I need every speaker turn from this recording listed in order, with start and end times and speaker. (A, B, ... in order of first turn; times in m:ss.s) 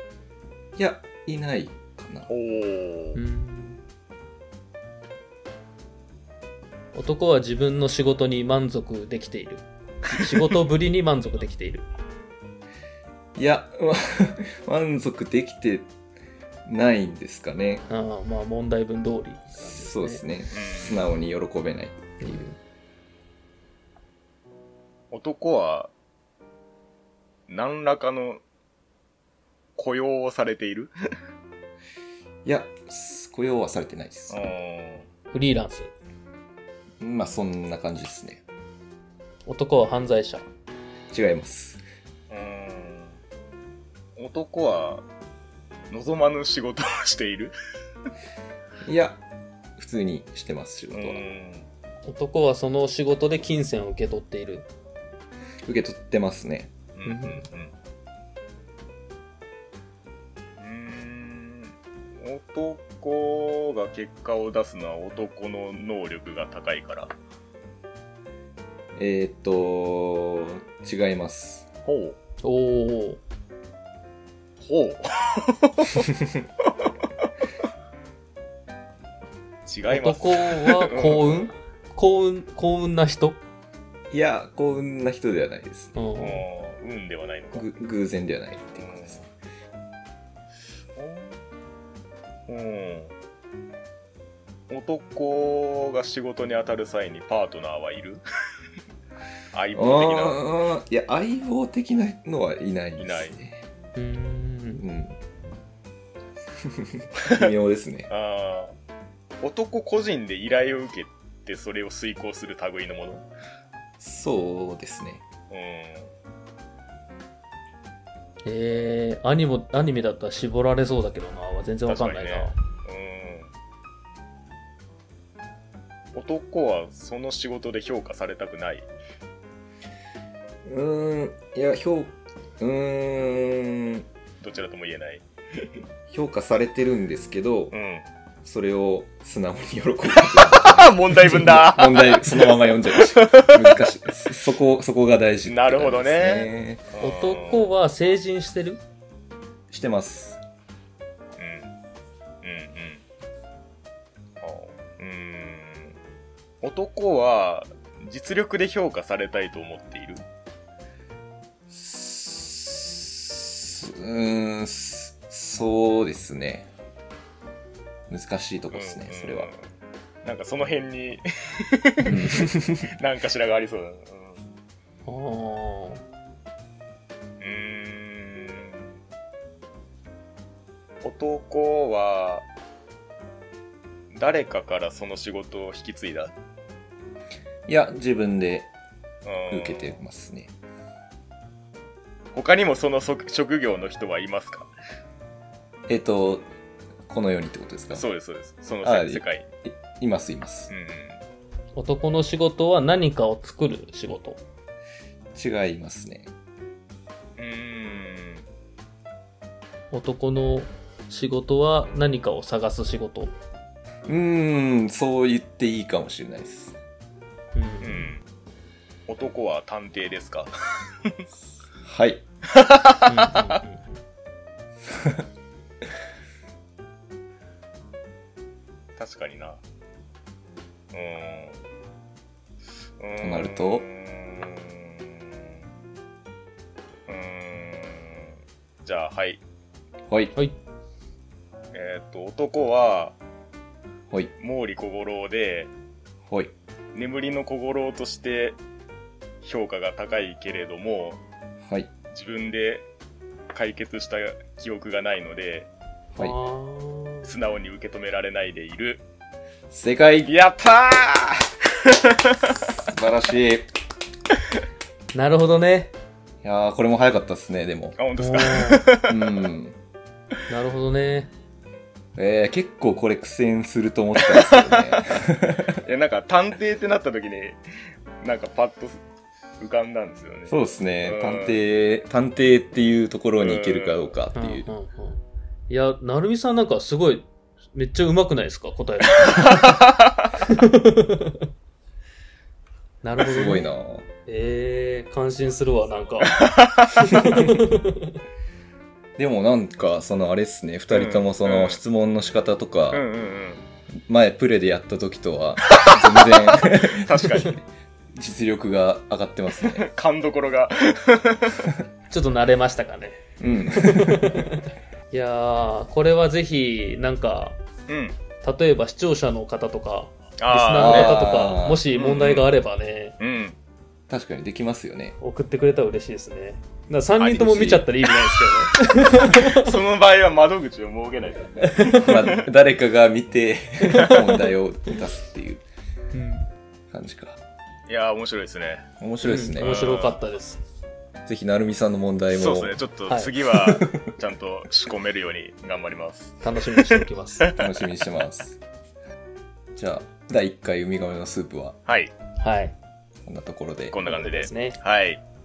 0:00.8-0:02.3 A
0:02.3-0:03.2 B
0:03.2-0:03.8 C
0:07.0-0:11.8 C
0:10.1-0:10.5 A
0:13.4-0:15.9 A
0:16.7-0:17.8 A
0:17.9-0:20.2 C
0:19.7-0:22.5 A
0:20.5-0:21.0 B
0:22.2-0:22.6 C
0:25.1-0:25.9 B
0:27.5-0:28.4 B
0:29.8-0:30.9 B
0:32.4-0:34.5 A
0:34.3-0:35.1 B
0:35.3-0:35.9 C
0:37.0-0:38.4 A
0:39.5-0:40.4 C
0:41.1-0:41.8 A
0:42.3-0:43.2 B
0:44.2-0:45.0 B
0:45.9-0:47.5 B
0:48.8-0:49.2 A
0:49.8-0:51.2 A
0:50.9-0:51.7 B
0:52.0-0:54.7 C
0:55.7-0:57.4 A
0:57.0-0:57.7 B
0:57.1-0:57.4 C
1:00.6-1:07.1 B
1:09.0-1:11.7 A
1:11.8-1:12.2 B
1:12.4-1:13.2 C
1:14.6-1:16.2 B
1:19.7-1:21.4 B
1:19.9-1:23.4 C
1:24.1-1:26.0 A
1:26.0-1:26.4 C
1:26.2-1:27.7 B
1:27.6-1:29.2 A
1:28.8-1:29.2 B
1:31.0-1:31.4 B
1:32.5-1:33.1 B
1:34.7-1:38.2 B
1:39.5-1:40.4 B
1:39.8-1:43.6 A
1:43.0-1:43.3 B
1:44.0-1:44.8 C
1:44.8-1:45.2 A
1:46.6-1:48.1 A
1:48.1-1:48.7 B
1:49.4-1:53.2 B
1:54.0-1:55.2 A
1:55.5-1:56.1 B
1:58.5-2:02.5 C
2:01.9-2:03.5 B
2:06.1-2:08.9 B
2:10.6-2:14.1 A
2:14.4-2:15.8 B
2:16.1-2:17.8 A
2:17.7-2:18.0 B
2:18.4-2:26.9 A
2:20.2-2:23.8 B
2:21.2-2:21.6 C
2:25.4-2:27.7 B
2:27.0-2:28.8 C
2:29.7-2:30.4 A
2:31.4-2:31.7 B
2:32.4-2:33.0 B
2:34.4-2:36.0 B
2:36.6-2:40.2 B
2:41.7-2:46.7 A
2:48.1-2:49.5 A
2:48.7-2:49.6 B
2:50.2-2:54.5 B
2:52.1-2:52.4 C
2:52.1-2:52.8 A
2:55.1-2:56.0 C
2:57.4-2:58.9 B
3:01.0-3:02.5 B
3:04.1-3:06.3 B
3:07.7-3:08.7 A
3:09.2-3:10.0 B
3:09.5-3:10.5 A
3:12.4-3:14.7 B
3:15.9-3:16.5 A
3:17.1-3:18.1 A
3:17.9-3:19.5 B
3:18.8-3:20.7 A
3:20.7-3:21.2 B
3:21.8-3:24.4 C
3:25.4-3:26.3 A
3:27.4-3:28.4 B
3:29.9-3:33.3 C
3:34.1-3:36.8 A
3:37.6-3:38.1 C
3:37.8-3:38.2 B
3:39.1-3:41.2 B
3:41.8-3:42.2 A
3:42.5-3:43.6 B
3:43.1-3:43.9 C
3:44.9-3:45.2 A
3:49.0-3:49.6 B
3:50.9-3:51.6 B
3:53.0-3:55.4 B
3:53.2-3:53.8 A
3:57.1-3:59.4 B
4:00.1-4:00.4 A
4:01.7-4:03.2 B
4:04.4-4:05.7 B
4:06.3-4:06.5 A
4:06.9-4:08.6 B
4:09.4-4:11.2 B
4:11.6-4:11.9 A
4:12.1-4:12.9 B
4:13.5-4:15.7 B
4:16.1-4:17.3 C
4:17.2-4:19.0 B
4:19.7-4:20.3 A
4:20.3-4:22.6 B
4:22.7-4:23.7 A
4:25.1-4:25.9 C
4:26.4-4:28.0 A
4:28.0-4:29.3 B
4:28.2-4:28.9 C
4:29.1-4:29.8 A
4:30.5-4:31.3 C
4:32.2-4:35.8 A
4:34.2-4:35.0 B
4:35.8-4:37.6 B
4:38.2-4:39.0 B
4:39.6-4:41.6 B
4:40.5-4:44.7 A
4:43.4-4:44.1 B
4:44.4-4:49.7 C
4:49.2-4:50.3 B
4:50.4-4:51.4 C
4:53.0-4:53.7 C
4:53.2-4:54.1 A
4:54.3-4:56.4 C
4:56.3-4:57.0 B
4:56.9-4:58.2 C
4:59.2-5:03.0 A
5:00.9-5:01.8 B
5:02.9-5:03.6 B
5:04.1-5:07.6 A
5:05.7-5:07.6 B
5:08.1-5:09.8 A
5:09.6-5:11.7 B
5:12.1-5:17.6 C
5:13.4-5:14.5 A
5:17.9-5:18.2 B
5:18.4-5:23.2 C
5:20.4-5:21.2 B
5:20.7-5:21.8 A
5:21.9-5:22.5 B
5:23.2-5:23.6 B
5:24.1-5:25.2 A
5:25.2-5:29.8 C
5:27.2-5:27.9 A
5:29.3-5:32.4 B
5:31.6-5:32.1 C
5:32.0-5:35.6 A
5:34.0-5:34.3 B
5:36.1-5:36.5 C
5:36.9-5:37.4 A
5:37.9-5:38.9 B
5:39.0-5:39.8 A
5:39.2-5:40.6 C
5:39.6-5:40.2 B
5:41.3-5:42.8 A
5:42.3-5:48.1 B
5:43.5-5:44.1 A
5:46.4-5:47.5 C
5:47.6-5:48.6 A
5:49.8-5:51.8 A
5:51.9-5:52.1 B
5:52.4-5:52.8 C
5:53.2-5:54.0 A
5:53.9-5:55.2 B
5:54.1-5:54.8 C